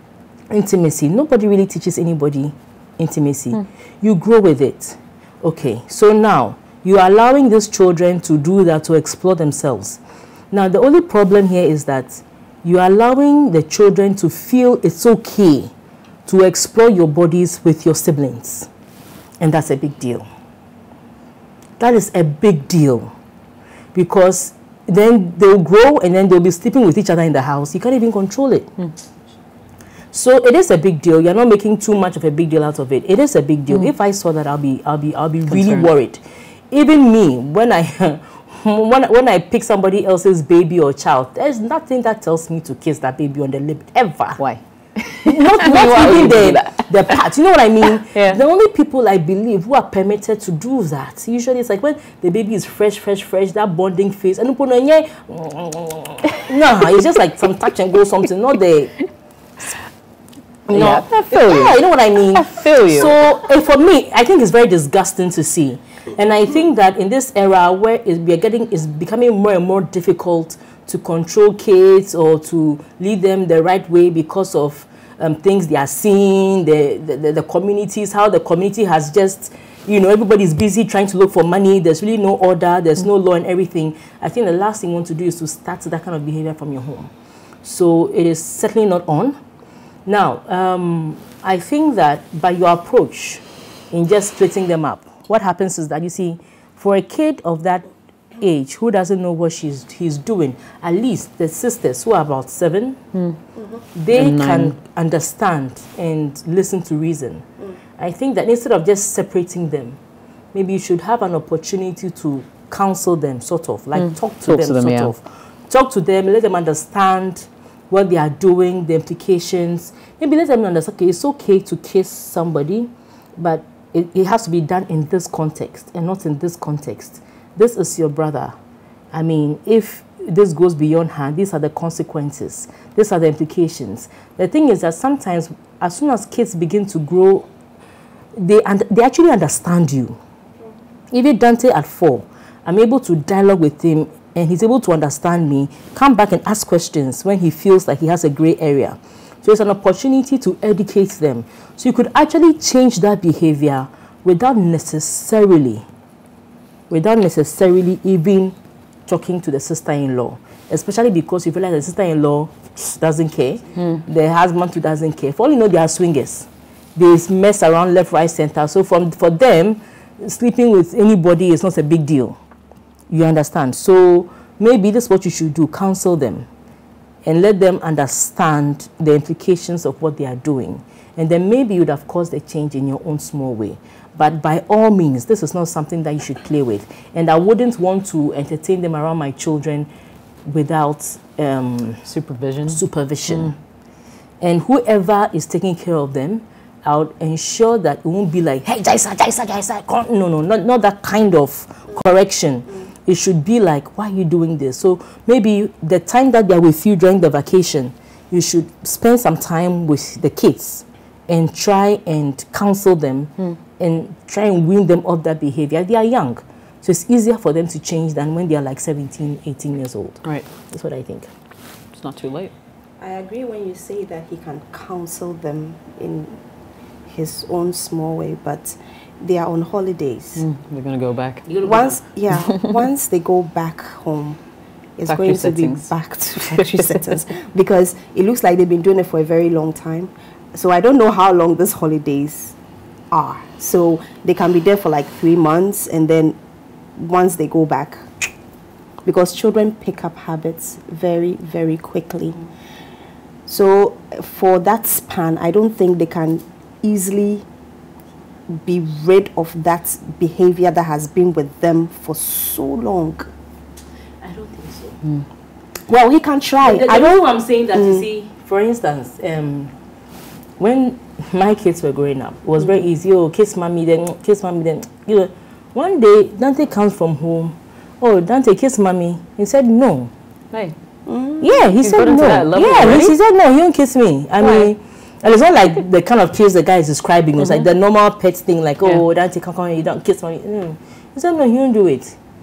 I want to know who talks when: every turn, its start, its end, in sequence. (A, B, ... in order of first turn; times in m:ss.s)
0:00.5-0:10.0 A
0:10.5-0:15.7 A
0:16.2-0:18.7 A
0:19.4-0:20.2 A
0:21.8-0:23.1 A
0:23.9-0:28.7 A
0:30.1-0:44.4 A
0:35.5-0:35.9 B
0:44.4-0:47.2 B
0:45.2-0:59.0 A
0:48.1-0:48.4 B
1:00.7-1:27.1 A
1:00.7-1:01.8 B
1:02.3-1:03.2 B
1:27.6-1:29.3 A
1:30.0-1:37.9 A
1:38.4-1:43.0 A
1:43.9-1:47.4 A
1:44.1-1:44.8 B
1:48.0-1:50.0 A
1:50.5-2:08.5 A
1:54.0-1:55.1 B
2:09.1-2:17.5 A
2:18.4-2:20.2 A
2:21.1-2:35.8 A
2:36.9-2:38.5 A
2:39.1-2:52.4 A
2:53.1-2:56.5 A
2:57.2-3:09.9 A
3:10.4-3:12.0 A
3:12.0-3:13.5 B
3:12.7-3:13.6 A
3:14.4-3:41.3 A
3:41.9-3:42.5 B
3:43.0-3:46.4 C
3:47.1-3:50.4 C
3:50.4-3:51.5 B
3:51.4-3:52.0 A
3:51.6-3:54.4 C
3:55.0-4:02.5 C
3:55.0-3:55.9 B
3:56.4-3:57.1 B
4:03.1-4:06.4 C
4:07.0-4:08.0 C
4:09.0-4:12.4 C
4:13.5-4:17.4 C
4:18.5-4:23.3 C
4:24.2-4:25.0 A
4:25.9-4:27.2 C
4:26.6-4:29.7 A
4:27.7-4:28.0 C
4:30.6-4:40.1 A
4:41.0-4:41.6 C
4:41.4-4:52.2 A
4:41.7-4:43.2 B
4:44.4-4:44.7 B
4:47.4-4:47.7 B